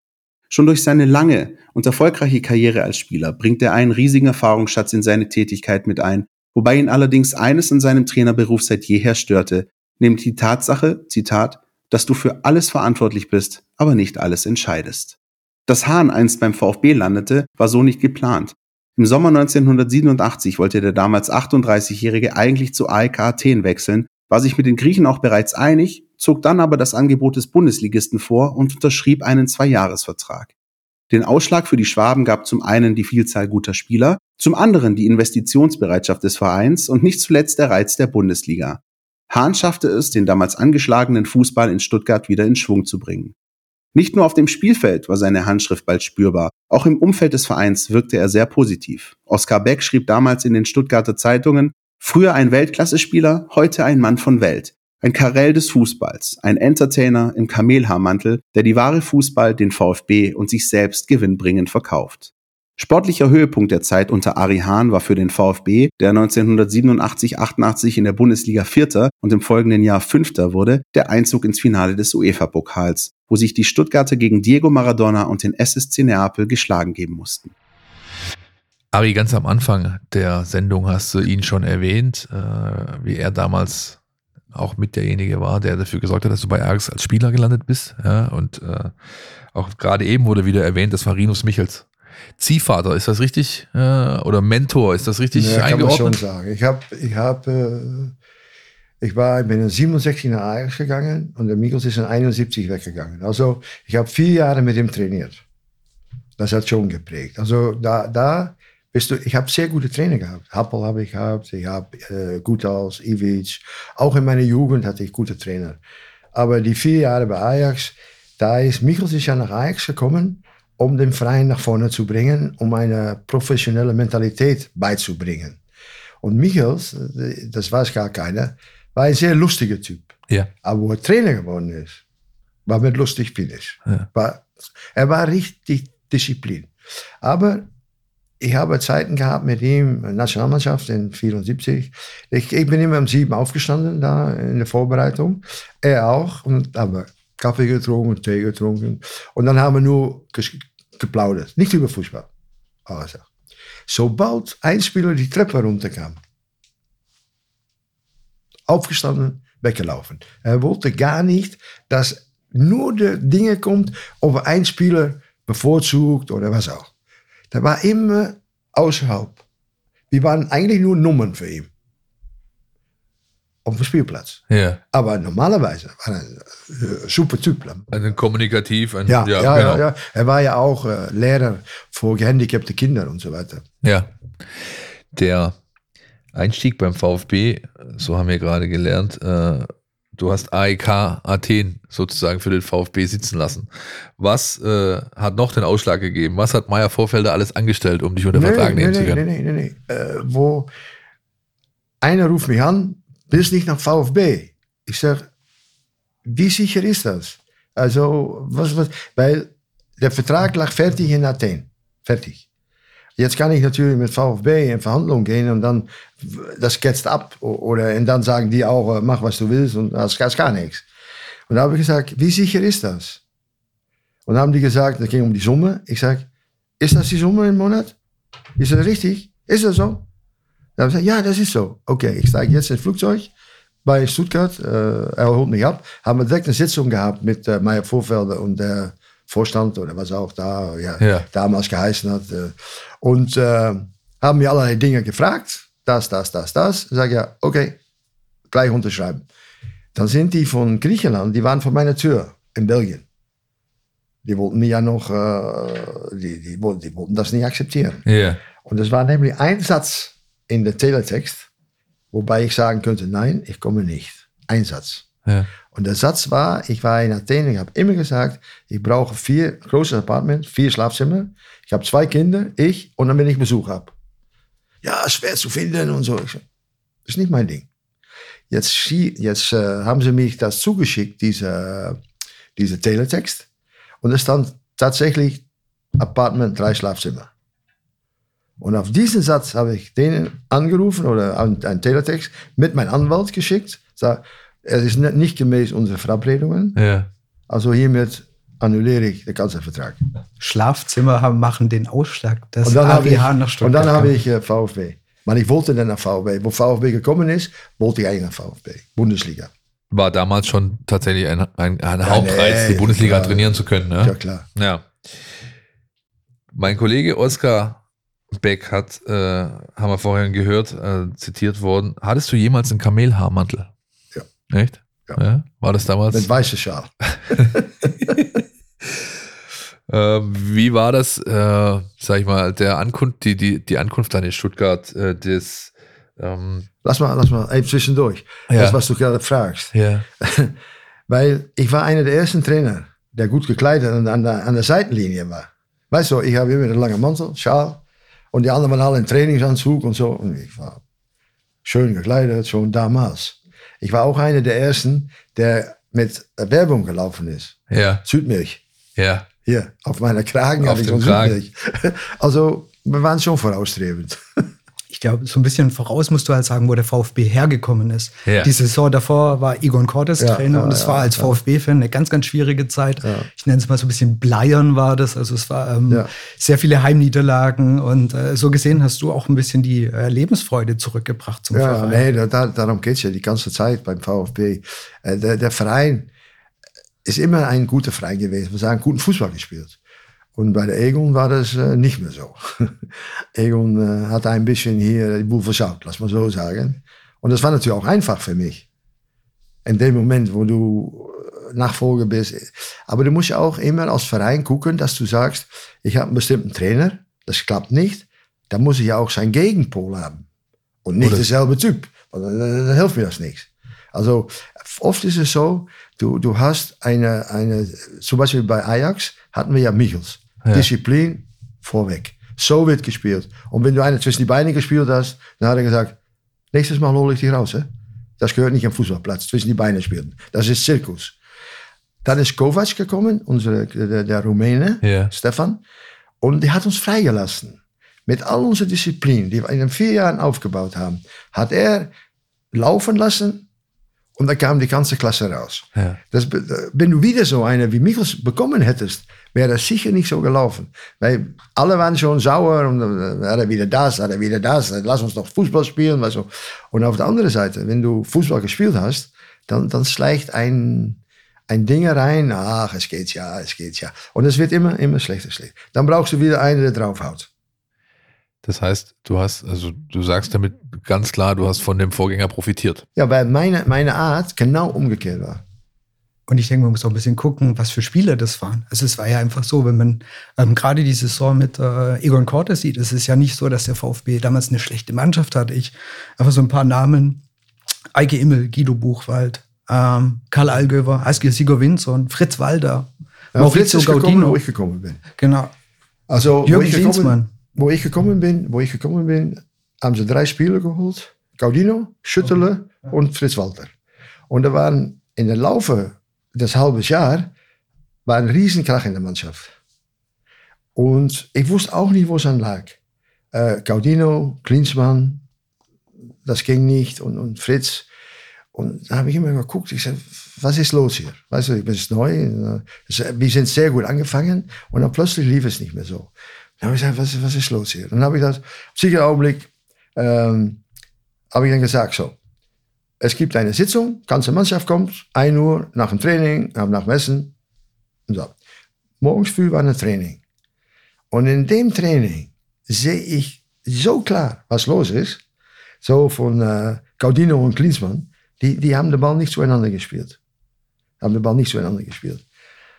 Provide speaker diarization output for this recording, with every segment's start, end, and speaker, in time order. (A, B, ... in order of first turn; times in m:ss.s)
0:00.5-0:30.5 A
0:31.1-0:43.4 A
0:43.9-1:17.5 A
1:18.9-1:24.0 B
1:24.5-1:29.0 B
1:29.5-1:31.9 B
1:32.4-1:36.2 B
1:35.3-1:38.1 C
1:39.0-1:45.4 C
1:46.4-1:55.8 C
1:56.3-2:05.6 C
2:06.2-2:12.0 C
2:12.7-2:17.7 C
2:18.4-2:32.3 C
2:32.9-2:33.3 C
2:33.9-2:36.2 C
2:38.7-2:46.9 C
2:47.5-2:49.4 C
2:50.1-2:51.7 C
2:53.6-2:57.9 C
2:54.5-2:54.8 B
2:57.9-2:59.8 B
2:59.1-3:03.7 C
3:03.8-3:04.1 B
3:05.1-3:05.6 B
3:06.3-3:19.2 B
3:18.3-3:20.7 C
3:22.0-3:25.3 C
3:26.2-3:32.4 C
3:33.2-3:40.8 C
3:41.5-3:43.2 C
3:44.3-3:46.3 C
3:46.8-3:48.0 C
3:48.6-3:50.0 C
3:50.8-3:53.3 C
3:53.8-4:07.8 C
4:01.0-4:01.3 B
4:08.5-4:09.2 C
4:10.0-4:13.0 C
4:14.2-4:18.0 C
4:18.0-4:18.4 B
4:18.6-4:21.5 C
4:22.1-4:25.1 C
4:25.7-4:33.9 C
4:34.8-4:36.4 C
4:37.1-4:37.7 C
4:38.5-4:42.0 C
4:42.6-4:43.5 C
4:44.0-4:45.4 C
4:46.0-4:47.3 C
4:48.6-4:56.8 C
4:56.8-4:57.1 B
4:57.5-5:00.0 C
5:00.4-5:04.1 D
5:02.6-5:09.5 C
5:09.9-5:14.9 B
5:12.0-5:14.5 C
5:16.5-5:17.8 B
5:18.3-5:23.7 B
5:24.5-5:26.3 B
5:26.1-5:28.2 C
5:27.2-5:27.5 B
5:28.1-5:29.0 B
5:29.9-5:36.7 B
5:36.8-5:40.6 C
5:38.5-5:38.8 B
5:39.7-5:40.0 B
5:41.1-5:50.8 C
5:51.6-5:58.6 C
5:57.7-5:58.0 B
5:59.0-5:59.3 B
5:59.4-6:04.4 C
6:00.6-6:01.4 B
6:04.9-6:22.1 D
6:10.2-6:11.4 C
6:13.0-6:13.3 C
6:21.5-6:26.1 C
6:27.0-6:29.8 C
6:30.4-6:38.7 C
6:39.6-6:50.2 C
6:50.8-7:06.0 C
7:06.5-7:07.7 C
7:08.2-7:11.2 C
7:12.0-7:15.6 C
7:14.8-7:15.1 B
7:16.2-7:21.9 C
7:22.5-7:23.4 C
7:24.2-7:47.3 C
7:48.4-7:52.8 B
7:53.0-7:55.4 C
7:56.3-8:07.2 D
8:08.0-8:14.4 D
8:13.3-8:15.0 C
8:15.2-8:15.5 D
8:16.1-8:23.7 C
8:16.4-8:17.3 D
8:24.3-8:27.3 C
8:28.1-8:29.5 C
8:30.8-8:32.8 C
8:33.3-8:35.2 C
8:36.2-8:37.9 C
8:38.5-8:50.6 C
8:51.3-8:52.2 C
8:53.0-8:57.3 C
8:58.1-8:58.3 C
8:59.0-9:00.2 C
9:01.1-9:05.2 C
9:05.8-9:10.2 C
9:11.0-9:12.2 C